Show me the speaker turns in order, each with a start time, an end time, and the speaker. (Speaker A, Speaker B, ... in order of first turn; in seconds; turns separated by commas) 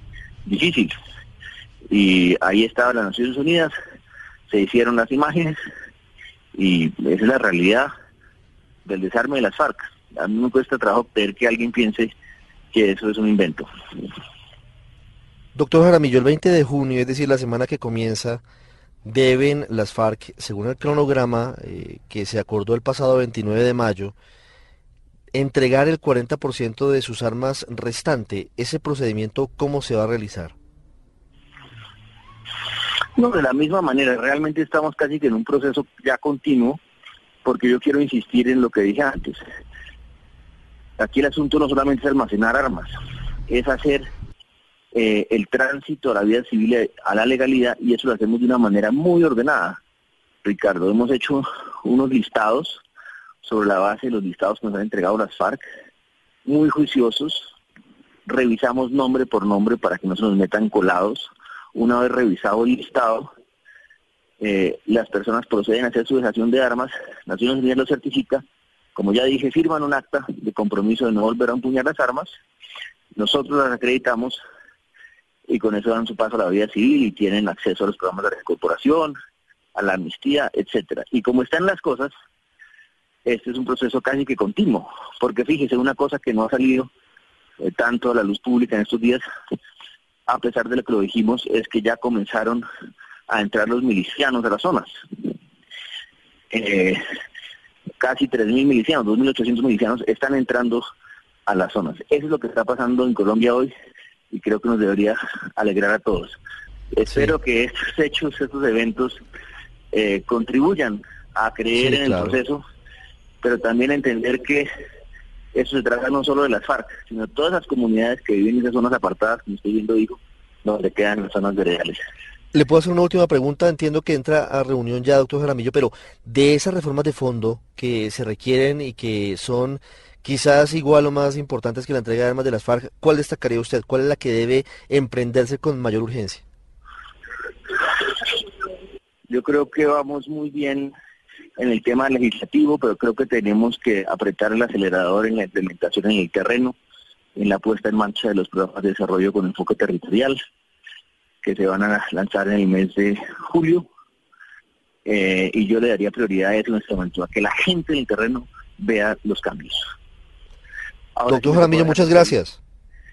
Speaker A: 0.5-0.9, Speaker A: 1.9-3.7, Speaker A: 4.5-5.6, Speaker A: 6.5-7.9, Speaker A: 8.9-12.2, Speaker A: 12.7-13.7, Speaker B: 15.6-18.4, Speaker B: 19.1-24.1, Speaker B: 25.3-30.6, Speaker A: 33.2-36.8, Speaker A: 37.5-39.4, Speaker A: 41.0-42.9, Speaker A: 43.5-44.1, Speaker A: 44.9-49.8, Speaker A: 50.4-52.8, Speaker A: 53.4-55.6, Speaker A: 56.5-57.5, Speaker A: 58.3-63.3, Speaker A: 64.4-68.4, Speaker A: 69.0-72.3, Speaker A: 73.2-74.4, Speaker A: 75.5-79.2, Speaker A: 79.8-82.1, Speaker A: 83.3-86.9, Speaker A: 87.6-89.2, Speaker A: 90.3-92.6, Speaker A: 93.3-94.9, Speaker A: 96.5-97.0, Speaker A: 98.0-100.8, Speaker A: 101.5-103.7, Speaker A: 104.3-106.4, Speaker A: 106.9-109.2, Speaker B: 107.1-107.4, Speaker A: 109.9-112.6, Speaker B: 111.7-112.4, Speaker A: 113.4-114.7, Speaker A: 115.5-122.0, Speaker B: 122.5-136.4, Speaker A: 139.3-140.9, Speaker A: 141.6-146.8, Speaker A: 147.4-150.4, Speaker A: 151.4-153.9, Speaker A: 155.1-159.9, Speaker A: 161.2-162.4, Speaker B: 161.3-162.6